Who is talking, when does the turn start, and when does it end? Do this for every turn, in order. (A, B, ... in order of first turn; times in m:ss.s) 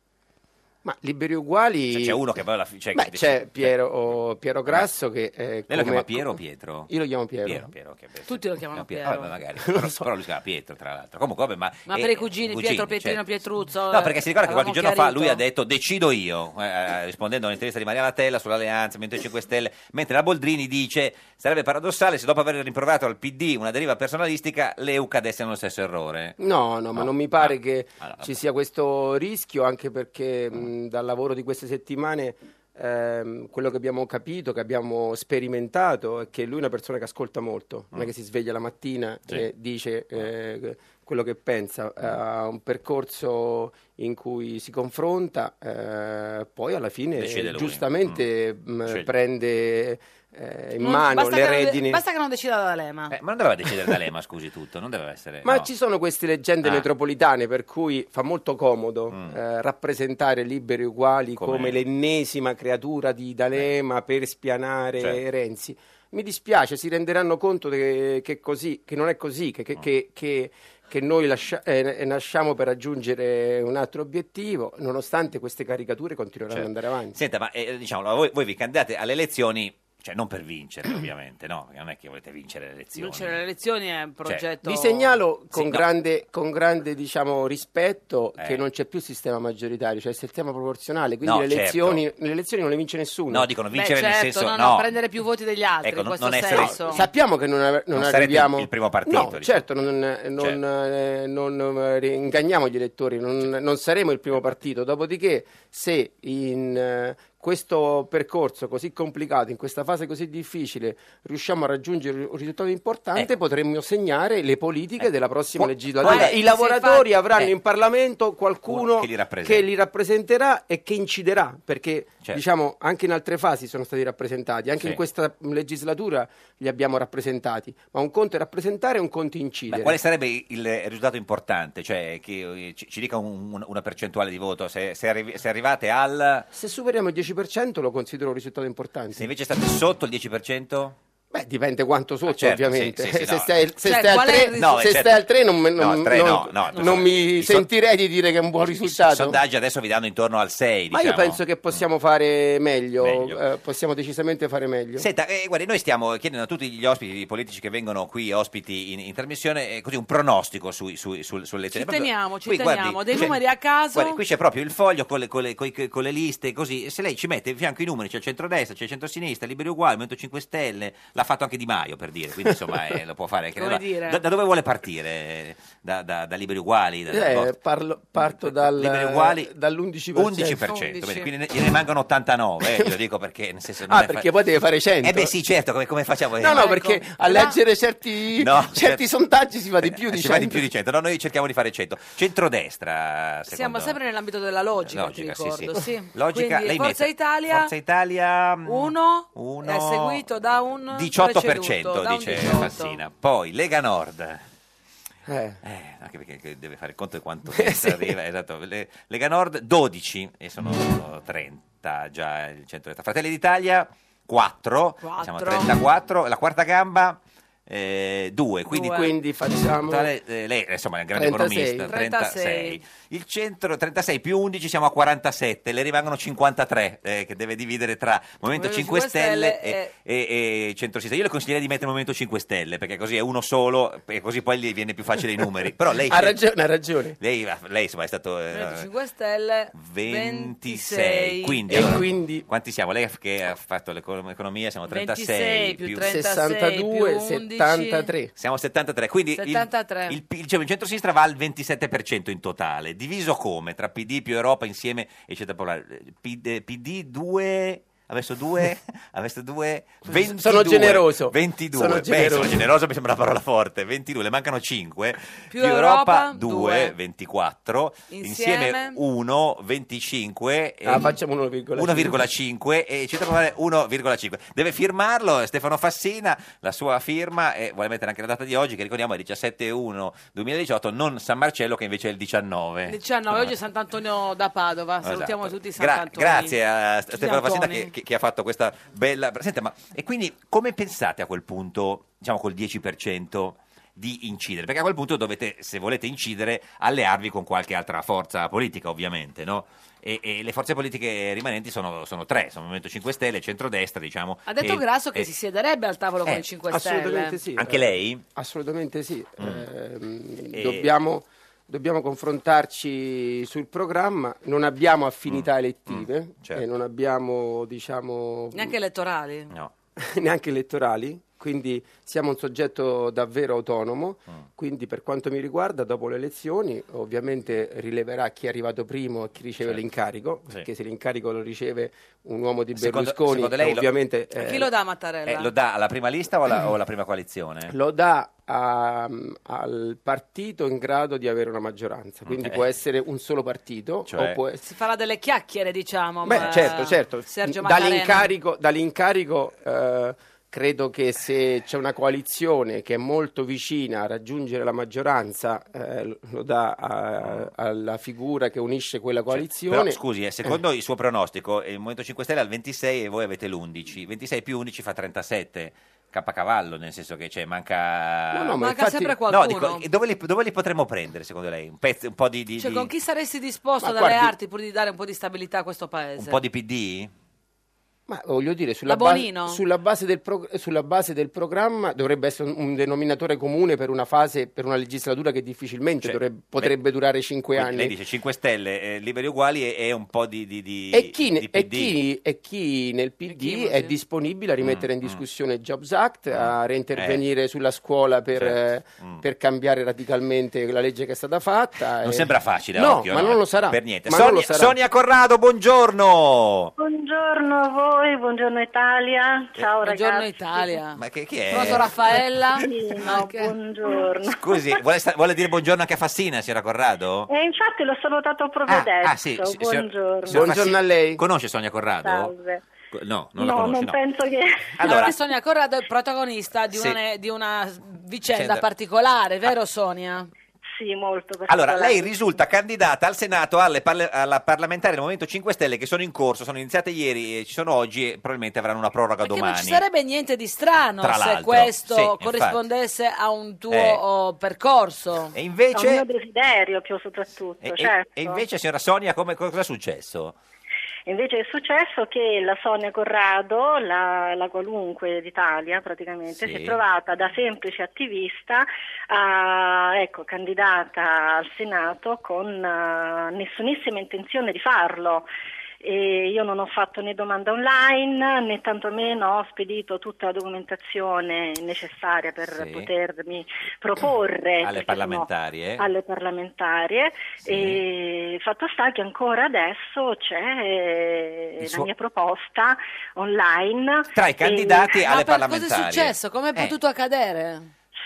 0:00.8-0:02.2 A
0:01.9-0:03.7 B
0:02.9-0:07.7 A
0:05.7-0:06.9 B
0:07.4-0:13.2 B
0:08.3-0:09.3 C
0:09.6-0:10.0 A
0:11.9-0:15.4 C
0:13.9-0:26.4 B
0:26.4-0:52.0 A
0:26.9-0:28.4 B
0:47.2-0:48.2 B
0:48.8-0:49.1 B
0:50.8-0:53.1 C
0:53.1-0:55.7 B
0:55.4-1:17.2 A
0:59.1-0:59.4 B
1:01.3-1:01.8 B
1:16.5-1:23.4 B
1:23.0-1:25.2 C
1:24.6-1:33.5 A
1:25.5-1:25.8 B
1:28.4-1:28.6 B
1:31.2-1:32.0 B
1:33.3-1:34.9 B
1:33.7-1:37.0 C
1:35.8-1:37.0 B
1:36.6-2:10.0 A
1:37.9-1:39.6 B
1:55.0-1:56.4 B
1:56.0-1:57.1 C
1:58.7-1:59.6 B
2:09.7-2:16.5 B
2:16.5-2:19.3 A
2:19.1-2:21.0 B
2:21.3-2:29.4 A
2:22.2-2:23.5 B
2:23.8-2:25.0 C
2:24.6-2:27.7 B
2:26.7-2:27.0 C
2:28.6-2:31.8 B
2:30.9-2:35.0 A
2:33.0-2:33.4 B
2:35.0-2:43.4 B
2:41.7-2:44.2 C
2:43.9-2:57.6 B
2:53.6-2:54.2 C
2:57.1-3:00.6 A
2:58.2-2:59.5 B
3:00.1-3:04.3 B
3:00.6-3:01.3 C
3:03.9-3:05.3 A
3:05.0-3:06.7 B
3:06.4-3:10.6 A
3:06.5-3:07.6 C
3:08.4-3:09.0 B
3:09.8-3:14.0 B
3:13.5-3:17.7 C
3:14.8-3:20.2 B
3:18.6-3:23.0 C
3:20.9-3:24.4 B
3:25.3-3:25.6 A
3:25.6-3:39.1 B
3:27.5-3:28.1 A
3:35.0-3:35.7 C
3:38.7-3:39.1 C
3:38.8-3:40.1 A
3:39.8-3:56.4 B
3:41.1-3:41.9 A
3:41.8-3:42.8 C
3:48.5-3:49.9 C
3:56.0-3:57.2 A
3:57.2-3:58.9 B
3:58.5-4:01.6 C
3:59.7-4:06.1 B
4:01.7-4:02.4 A
4:04.9-4:08.1 C
4:06.1-4:08.3 A
4:08.4-4:31.1 B
4:09.4-4:10.2 C
4:20.1-4:22.6 A
4:25.5-4:26.9 C
4:28.1-4:29.0 C
4:30.8-4:32.2 A
4:31.8-4:43.5 B
4:42.9-4:46.6 C
4:45.0-5:05.3 B
4:47.1-4:47.9 C
5:04.5-5:07.4 C
5:06.7-5:18.7 A
5:07.6-5:08.2 B
5:09.4-5:09.6 B
5:10.5-5:10.9 B
5:15.3-5:16.6 B
5:18.5-5:19.5 C
5:20.0-5:34.7 A
5:32.8-5:33.9 B
5:34.4-5:35.5 C
5:35.3-5:37.7 B
5:37.7-5:44.6 A
5:42.3-5:42.6 B
5:44.1-5:44.4 B
5:44.6-5:48.3 C
5:46.2-6:00.6 A
5:46.3-5:46.7 B
5:57.2-5:57.5 B
5:59.3-6:08.6 B
6:08.3-6:09.2 A
6:08.6-6:09.8 C
6:09.3-6:12.9 B
6:12.6-6:16.4 C
6:13.8-6:14.3 A
6:16.2-6:17.1 B
6:18.1-6:27.9 A
6:18.9-6:19.6 C
6:26.0-6:26.7 B
6:27.5-6:32.0 B
6:30.9-6:44.7 A
6:33.3-6:33.9 C
6:34.6-6:35.2 B
6:36.3-6:37.2 B
6:38.4-6:39.2 B
6:42.0-6:46.7 B
6:46.8-6:50.7 D
6:49.8-6:51.0 C
6:50.9-6:52.1 B
6:51.5-6:53.5 C
6:52.6-6:54.8 D
6:54.3-6:57.3 B
6:57.3-7:00.4 D
6:58.7-7:02.3 B
7:00.3-7:01.2 A
7:02.0-7:02.6 D
7:02.9-7:04.0 B
7:03.4-7:04.9 D
7:04.8-7:05.1 B
7:04.8-7:10.3 C
7:06.7-7:07.0 B
7:08.3-7:08.6 B
7:10.7-7:12.1 D
7:11.5-7:19.8 B
7:19.2-7:25.3 C
7:21.0-7:22.6 B
7:23.7-7:24.0 B
7:25.3-7:26.0 B
7:25.7-7:28.4 D
7:27.6-7:30.4 B
7:31.1-7:45.3 D
7:36.3-7:36.8 B
7:45.8-8:04.9 D
7:52.5-7:52.9 B
7:54.6-7:55.9 B
7:57.5-7:57.8 B
8:01.6-8:01.9 B
8:04.1-8:06.7 B
8:04.9-8:07.7 C